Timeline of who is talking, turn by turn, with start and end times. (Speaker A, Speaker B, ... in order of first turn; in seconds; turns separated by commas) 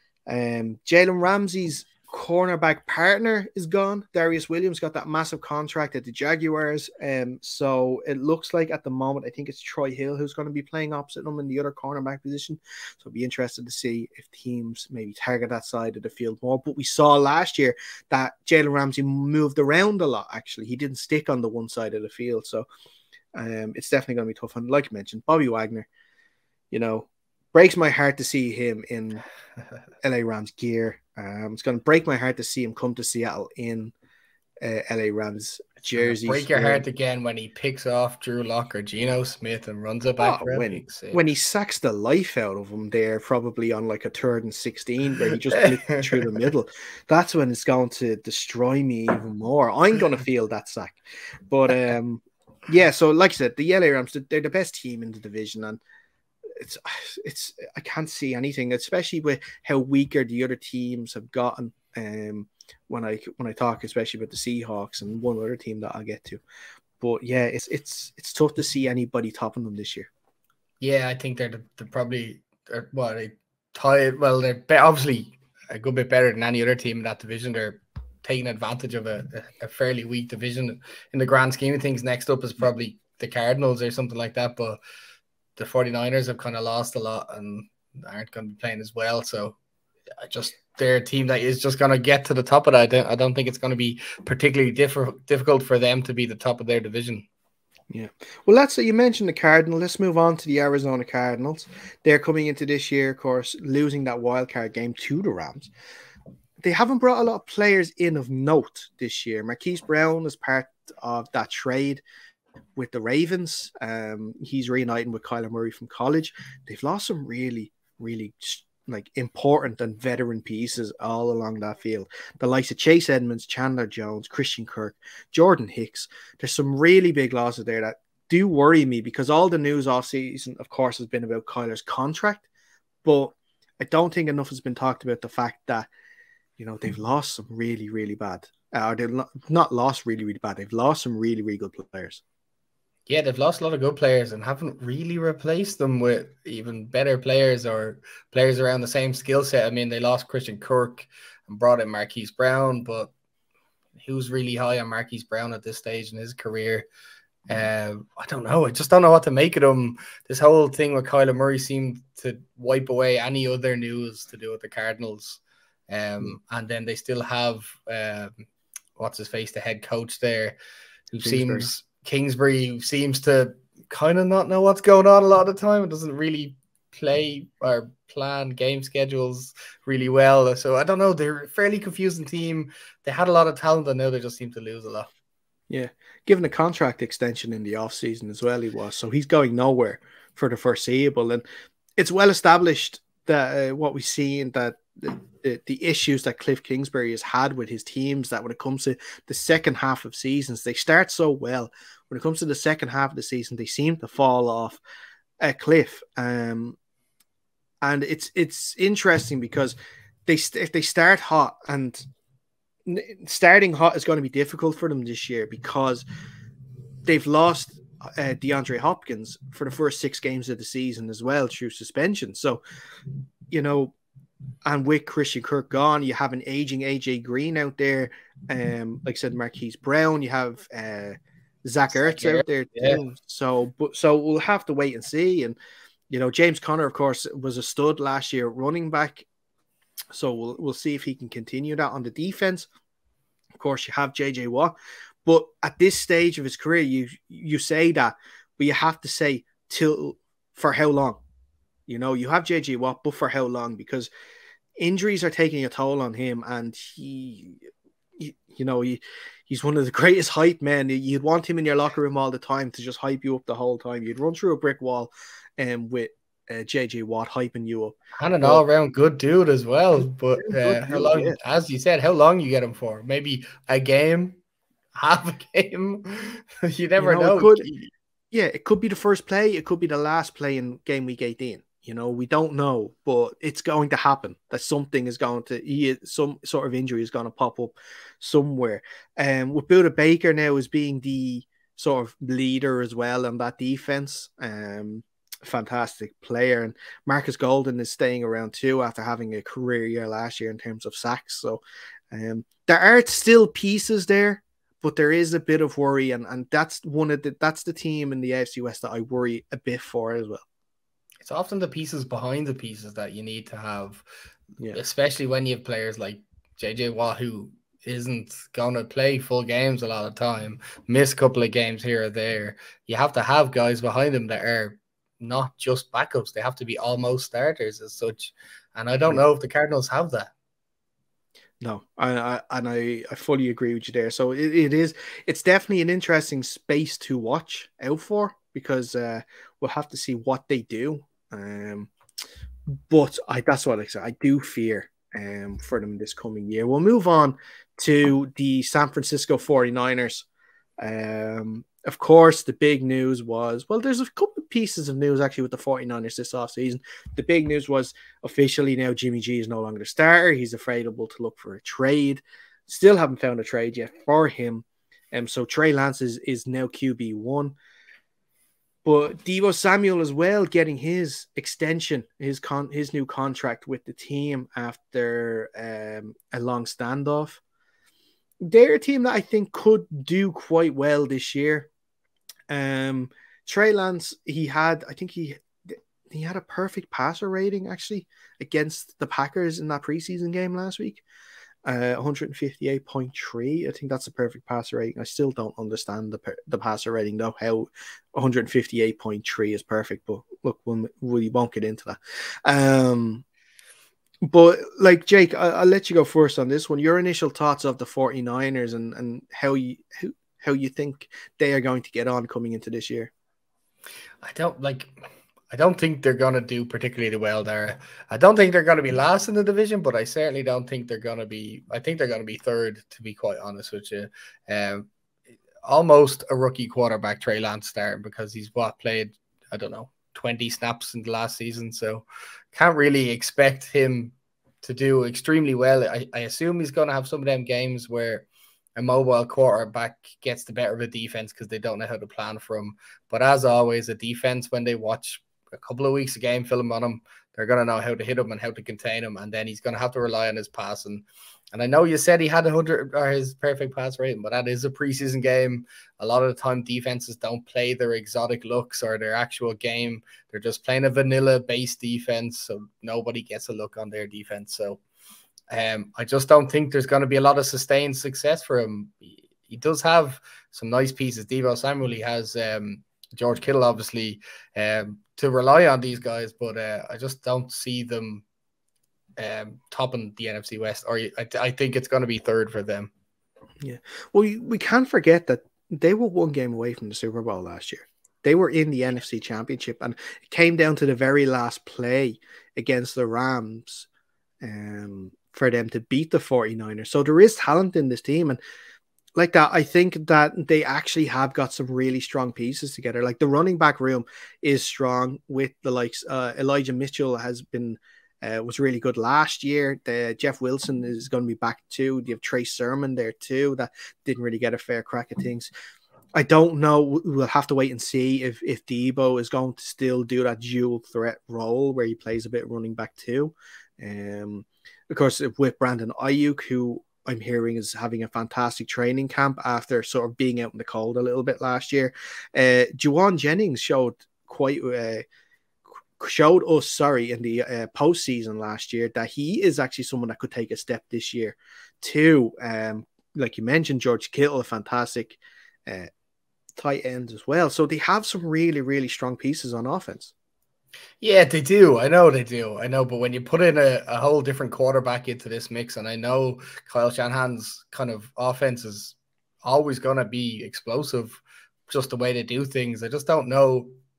Speaker A: 0.3-22.6, Speaker A: 23.3-25.9, Speaker A: 26.7-29.2, Speaker A: 30.0-33.9, Speaker A: 34.6-36.9, Speaker B: 36.0-41.2, Speaker A: 40.2-51.0, Speaker B: 45.6-46.3, Speaker A: 51.5-55.8, Speaker A: 56.6-66.4, Speaker A: 67.0-70.1, Speaker B: 70.8-84.8, Speaker B: 85.6-89.5, Speaker B: 90.2-97.2, Speaker A: 97.9-105.7, Speaker A: 106.6-112.0, Speaker A: 112.8-132.5, Speaker A: 133.0-135.9, Speaker A: 136.6-142.2, Speaker B: 143.1-153.1, Speaker B: 154.0-156.8, Speaker B: 157.5-168.3, Speaker B: 169.0-170.6, Speaker B: 171.1-185.1, Speaker A: 171.2-171.7, Speaker A: 185.7-191.4, Speaker A: 192.0-204.8, Speaker A: 205.4-206.8, Speaker A: 207.8-209.8, Speaker A: 210.3-212.0, Speaker A: 212.8-216.0, Speaker A: 217.1-222.6, Speaker A: 223.5-223.9, Speaker A: 224.6-235.6, Speaker B: 232.1-233.0, Speaker A: 236.1-239.2, Speaker A: 240.1-242.7, Speaker A: 243.6-244.7, Speaker A: 245.2-251.2, Speaker A: 251.9-254.1, Speaker A: 254.8-257.6, Speaker A: 258.2-268.6, Speaker B: 268.2-274.4, Speaker A: 270.4-271.4, Speaker B: 274.9-277.9, Speaker A: 277.0-277.7, Speaker A: 278.3-301.6, Speaker A: 302.1-310.4, Speaker B: 311.2-314.0, Speaker B: 314.7-330.3, Speaker A: 331.6-341.9, Speaker A: 342.7-350.3, Speaker A: 350.8-367.6, Speaker A: 368.8-377.4, Speaker A: 378.4-381.7, Speaker A: 382.5-391.0, Speaker A: 391.6-403.2, Speaker A: 404.2-413.1, Speaker B: 414.2-414.9, Speaker B: 415.5-424.9, Speaker B: 425.6-464.8, Speaker B: 465.5-478.2, Speaker B: 479.2-482.9, Speaker A: 483.6-493.9, Speaker A: 494.4-498.4, Speaker A: 499.1-515.5, Speaker A: 516.1-535.0, Speaker A: 536.0-545.9, Speaker A: 546.5-550.1, Speaker B: 551.0-563.7